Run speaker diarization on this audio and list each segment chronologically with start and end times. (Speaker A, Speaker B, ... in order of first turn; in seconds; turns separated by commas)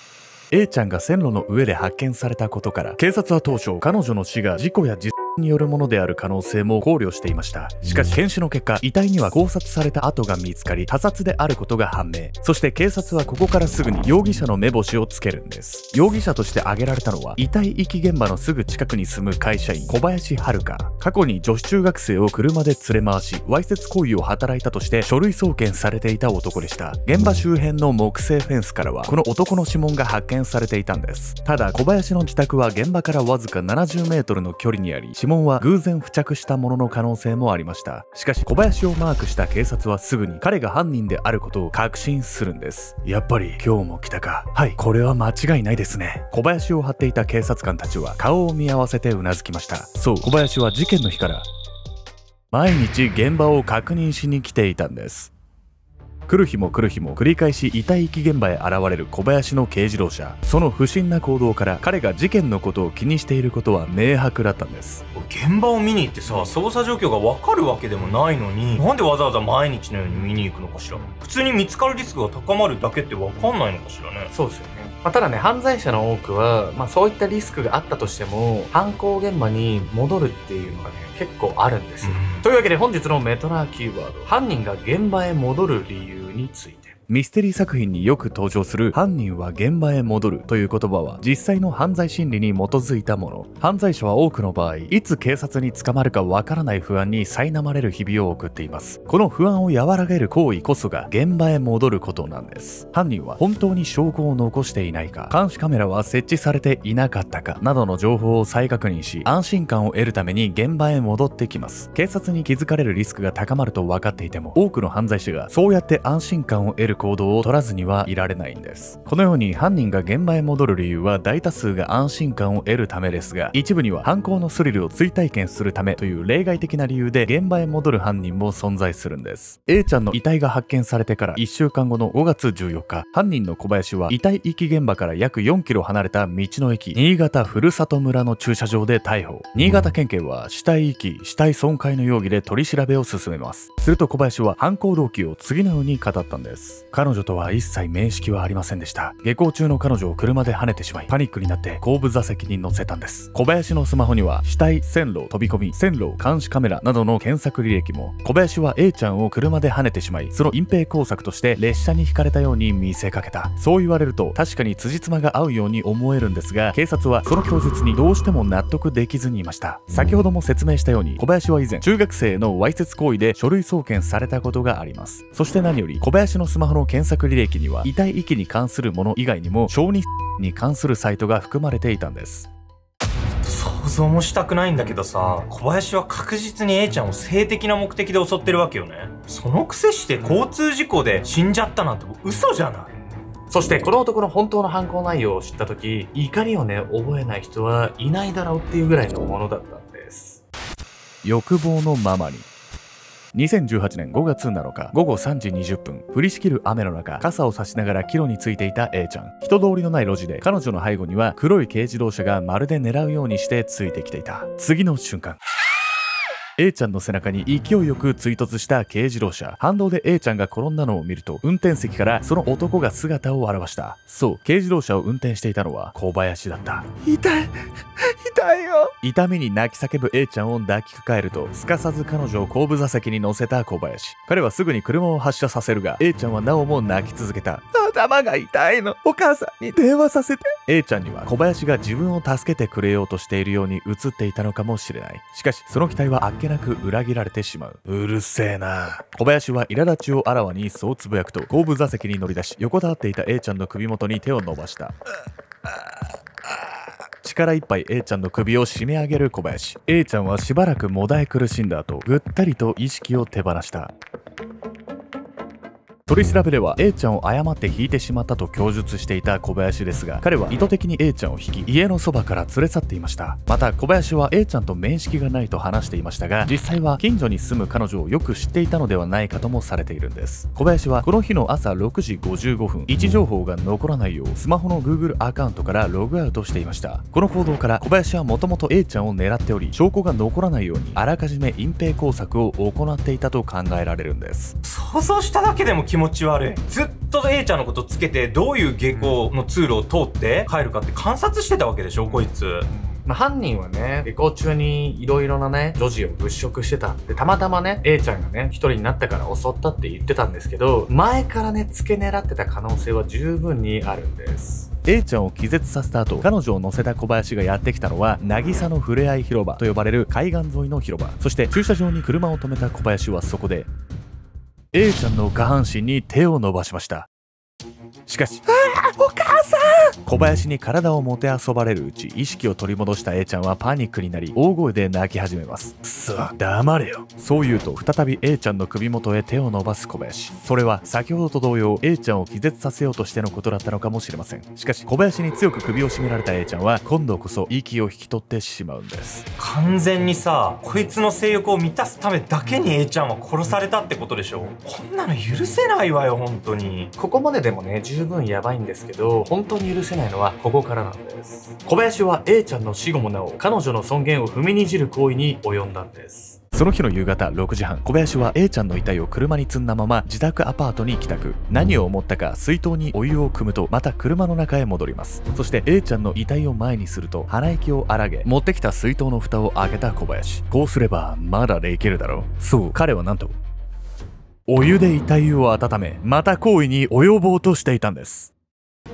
Speaker A: 0.5-51.5, Speaker A: 52.5-55.3, Speaker A: 56.3-65.0, Speaker B: 65.1-74.3, Speaker C: 74.3-86.9, Speaker B: 82.0-82.4, Speaker A: 87.1-182.5, Speaker B: 183.4-192.9, Speaker C: 193.5-200.4, Speaker A: 201.2-202.5, Speaker A: 203.3-215.4, Speaker A: 216.6-254.9, Speaker A: 257.2-263.9, Speaker A: 266.1-294.6, Speaker B: 294.6-302.7, Speaker C: 302.8-314.7, Speaker A: 314.8-323.7, Speaker A: 324.7-327.1, Speaker A: 328.1-349.3, Speaker B: 349.4-356.9, Speaker C: 357.0-361.7, Speaker A: 361.7-362.6, Speaker C: 362.2-366.4, Speaker A: 366.4-383.4, Speaker A: 384.5-388.3